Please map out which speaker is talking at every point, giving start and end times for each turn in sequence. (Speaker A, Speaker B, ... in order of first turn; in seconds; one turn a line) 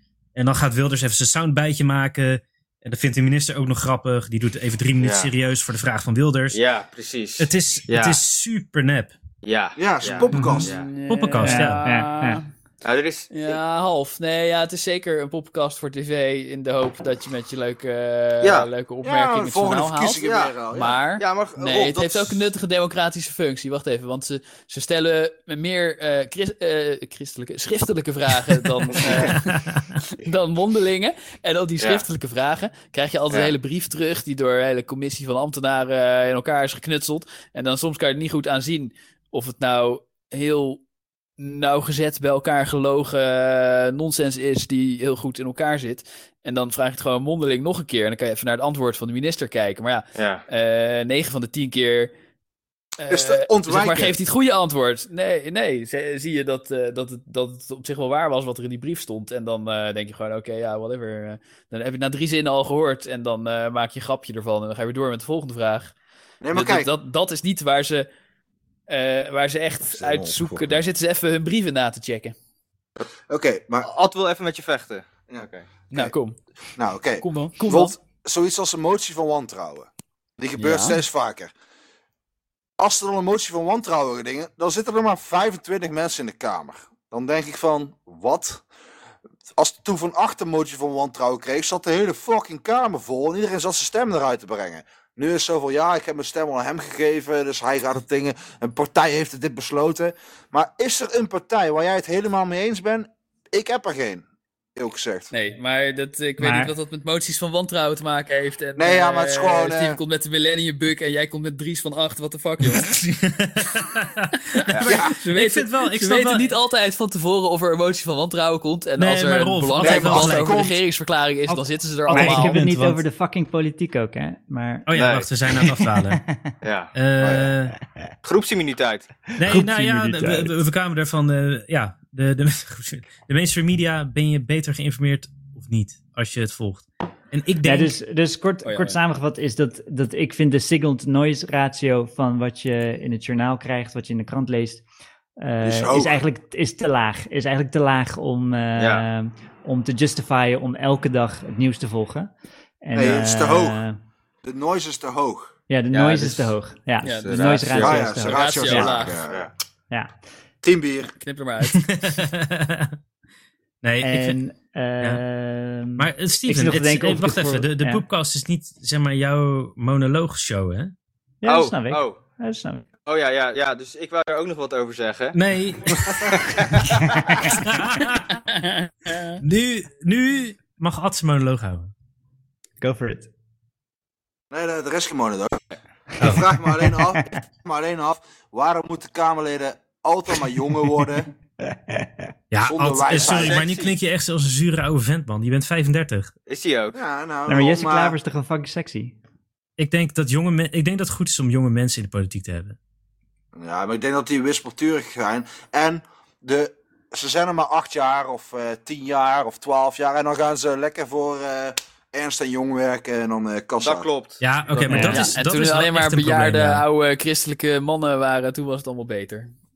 Speaker A: 0.3-6.6
Speaker B: 5.0-5.3
Speaker B: 6.5-8.2
Speaker A: 7.4-9.1
Speaker B: 9.4-10.9
Speaker C: 9.8-10.7
Speaker D: 10.3-10.7
Speaker E: 10.6-12.5
Speaker A: 11.1-11.9
Speaker D: 11.4-12.4
Speaker B: 12.8-13.6
Speaker E: 13.3-40.8
Speaker B: 18.4-18.7
Speaker C: 19.0-21.0
Speaker B: 20.2-20.6
Speaker B: 21.2-22.1
Speaker B: 29.0-29.3
Speaker A: 29.5-29.9
Speaker E: 41.4-52.1
Speaker B: 50.1-50.5
Speaker E: 53.0-65.9
Speaker C: 53.1-54.2
Speaker C: 66.4-66.9
Speaker E: 66.5-68.1
Speaker E: 68.9-72.3
Speaker C: 69.9-70.8
Speaker C: 73.3-73.9
Speaker B: 73.8-75.7
Speaker C: 75.3-76.1
Speaker E: 75.9-76.4
Speaker C: 76.8-81.5
Speaker E: 77.2-78.0
Speaker E: 80.6-81.0
Speaker C: 82.8-88.6
Speaker C: 89.6-105.3
Speaker E: 105.3-113.0
Speaker D: 106.4-106.7
Speaker C: 108.8-110.0
Speaker A: 112.7-116.5
Speaker E: 114.6-122.6
Speaker C: 114.8-115.1
Speaker A: 119.0-120.7
Speaker C: 119.8-120.8
Speaker A: 121.5-123.0
Speaker D: 122.1-124.9
Speaker A: 124.9-126.2
Speaker B: 125.0-125.3
Speaker D: 125.5-126.5
Speaker B: 126.6-126.9
Speaker A: 126.9-127.8
Speaker C: 127.2-127.5
Speaker B: 128.2-129.2
Speaker A: 129.4-137.9
Speaker D: 129.4-130.5
Speaker D: 137.6-144.8
Speaker E: 138.6-139.0
Speaker D: 145.4-152.3
Speaker C: 145.6-146.2
Speaker B: 148.8-149.1
Speaker D: 152.8-154.0
Speaker C: 152.9-153.8
Speaker C: 154.4-155.5
Speaker D: 155.7-159.0
Speaker B: 155.9-158.0
Speaker E: 157.0-159.2
Speaker C: 157.8-159.5
Speaker C: 160.6-161.1
Speaker E: 161.2-161.9
Speaker A: 161.7-163.0
Speaker A: 163.8-164.4
Speaker D: 164.0-168.0
Speaker A: 166.0-170.9
Speaker D: 171.4-172.8
Speaker B: 171.5-172.2
Speaker B: 173.1-175.4
Speaker A: 175.3-176.6
Speaker B: 176.6-176.9
Speaker D: 177.0-177.6
Speaker A: 177.4-178.4
Speaker E: 178.5-179.4
Speaker A: 179.4-181.9
Speaker D: 182.8-183.3
Speaker C: 184.5-185.6
Speaker A: 186.2-186.5
Speaker C: 186.2-191.3
Speaker D: 187.0-187.2
Speaker A: 192.5-196.3
Speaker C: 192.6-193.7
Speaker B: 193.1-194.0
Speaker B: 196.5-197.0
Speaker C: 196.9-198.2
Speaker D: 197.5-199.2
Speaker A: 199.8-202.8
Speaker C: 203.5-214.1
Speaker B: 213.8-214.9
Speaker A: 214.4-216.8
Speaker D: 214.9-215.3
Speaker E: 214.9-219.5